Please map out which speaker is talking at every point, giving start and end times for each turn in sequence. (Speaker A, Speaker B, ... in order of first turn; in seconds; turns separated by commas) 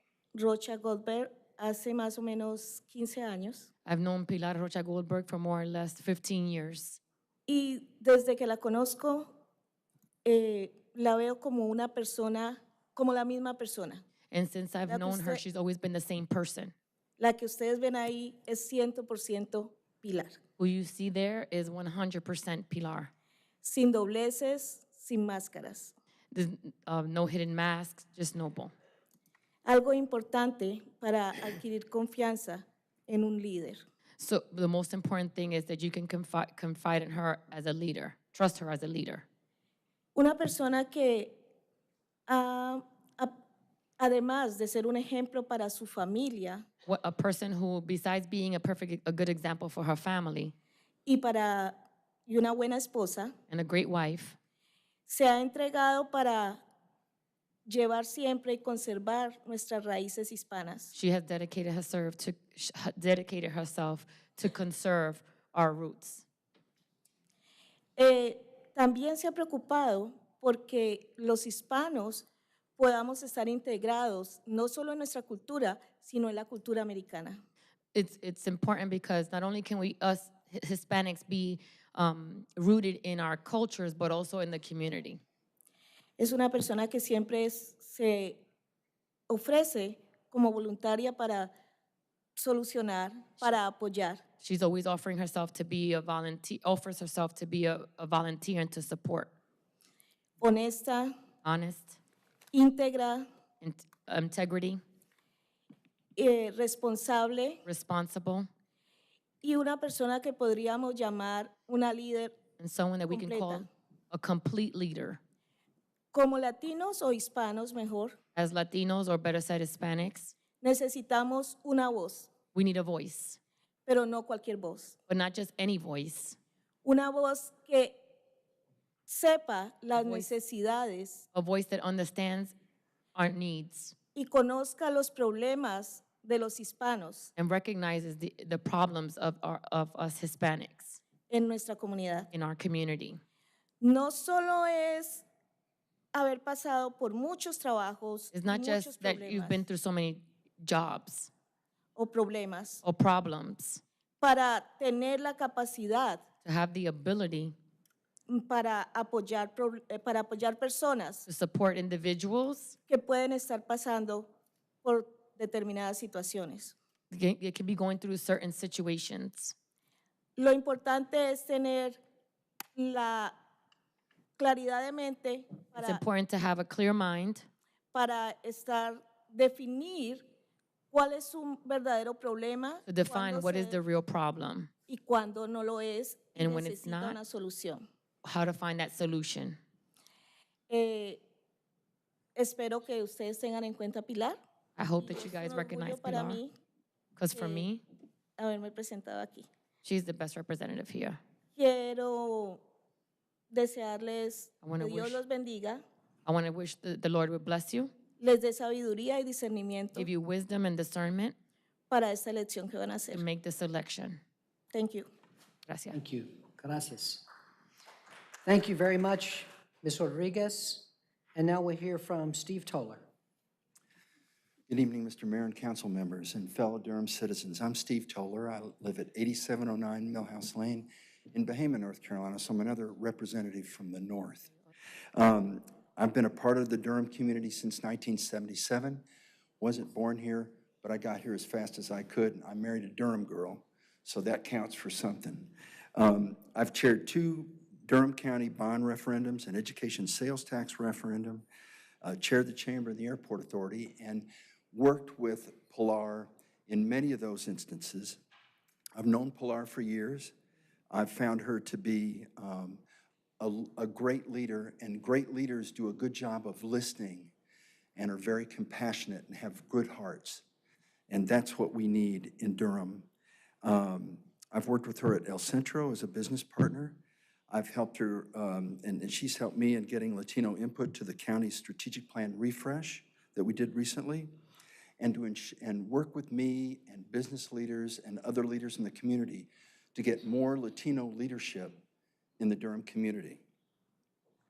Speaker A: 0.3-3.7, Speaker B: 3.9-7.0, Speaker A: 7.5-9.3, Speaker A: 10.3-14.0, Speaker B: 14.3-16.7, Speaker A: 14.9-15.4, Speaker A: 17.2-20.4, Speaker B: 20.6-23.1, Speaker A: 23.6-25.9, Speaker B: 26.3-28.7, Speaker A: 29.6-33.8, Speaker B: 34.2-39.2, Speaker A: 40.1-41.4, Speaker A: 42.3-43.4, Speaker A: 44.0-46.6, Speaker B: 46.9-50.5, Speaker A: 51.1-51.8, Speaker A: 52.3-53.3, Speaker B: 53.5-54.4, Speaker A: 55.1-56.6, Speaker A: 57.7-60.9, Speaker B: 60.9-66.2, Speaker A: 68.0-72.3, Speaker A: 72.8-77.4, Speaker B: 77.9-85.2, Speaker A: 86.2-88.4, Speaker A: 89.3-91.5, Speaker A: 92.4-94.2, Speaker B: 94.4-99.3, Speaker A: 100.4-101.1, Speaker B: 101.4-102.0, Speaker A: 102.5-103.3, Speaker B: 103.6-104.8, Speaker A: 106.2-107.6, Speaker B: 107.7-108.5, Speaker A: 109.4-112.4, Speaker B: 112.6-115.2, Speaker A: 113.1-113.7, Speaker A: 116.1-118.2, Speaker B: 118.3-120.3, Speaker A: 120.6-122.3, Speaker B: 122.5-123.4, Speaker A: 123.9-125.0, Speaker B: 125.1-126.4, Speaker A: 126.8-128.1, Speaker A: 129.1-131.3, Speaker B: 129.9-130.3, Speaker B: 131.3-132.5, Speaker B: 133.2-133.9, Speaker A: 134.2-137.3, Speaker B: 137.4-141.0, Speaker A: 141.3-142.3, Speaker B: 142.3-143.2, Speaker A: 143.8-145.2, Speaker A: 146.1-149.6, Speaker B: 148.3-151.3, Speaker A: 152.0-152.8, Speaker B: 152.8-153.8, Speaker A: 154.2-156.2, Speaker B: 156.4-157.6, Speaker A: 158.3-161.3, Speaker B: 161.3-162.8, Speaker A: 162.9-164.3, Speaker A: 164.8-166.8, Speaker B: 167.1-169.5, Speaker A: 170.4-172.0, Speaker A: 172.8-173.3, Speaker A: 174.4-176.0, Speaker B: 175.8-177.5, Speaker A: 177.9-180.2, Speaker A: 180.9-183.8, Speaker B: 182.9-184.7, Speaker A: 184.9-187.8, Speaker B: 186.4-187.2, Speaker B: 188.2-189.6, Speaker A: 190.7-191.2, Speaker A: 192.4-194.4, Speaker B: 194.8-196.4, Speaker A: 195.0-196.5, Speaker B: 197.2-197.8, Speaker A: 197.3-197.7, Speaker A: 198.4-199.5, Speaker B: 199.8-201.2, Speaker A: 201.6-202.6, Speaker A: 203.5-205.8, Speaker B: 204.6-205.2, Speaker B: 206.3-207.9, Speaker A: 208.2-210.1, Speaker B: 210.0-211.3, Speaker A: 211.9-213.2, Speaker B: 213.1-214.2, Speaker A: 214.7-215.1, Speaker B: 215.7-216.0, Speaker C: 215.9-217.2, Speaker C: 218.4-223.0, Speaker D: 224.7-234.5, Speaker D: 235.1-239.0, Speaker D: 239.6-251.4, Speaker D: 252.0-258.2, Speaker D: 258.9-260.3, Speaker D: 260.9-262.8, Speaker D: 263.4-267.3, Speaker D: 268.0-270.4, Speaker D: 271.1-273.1, Speaker D: 273.6-284.3, Speaker D: 285.0-291.8, Speaker D: 292.4-293.4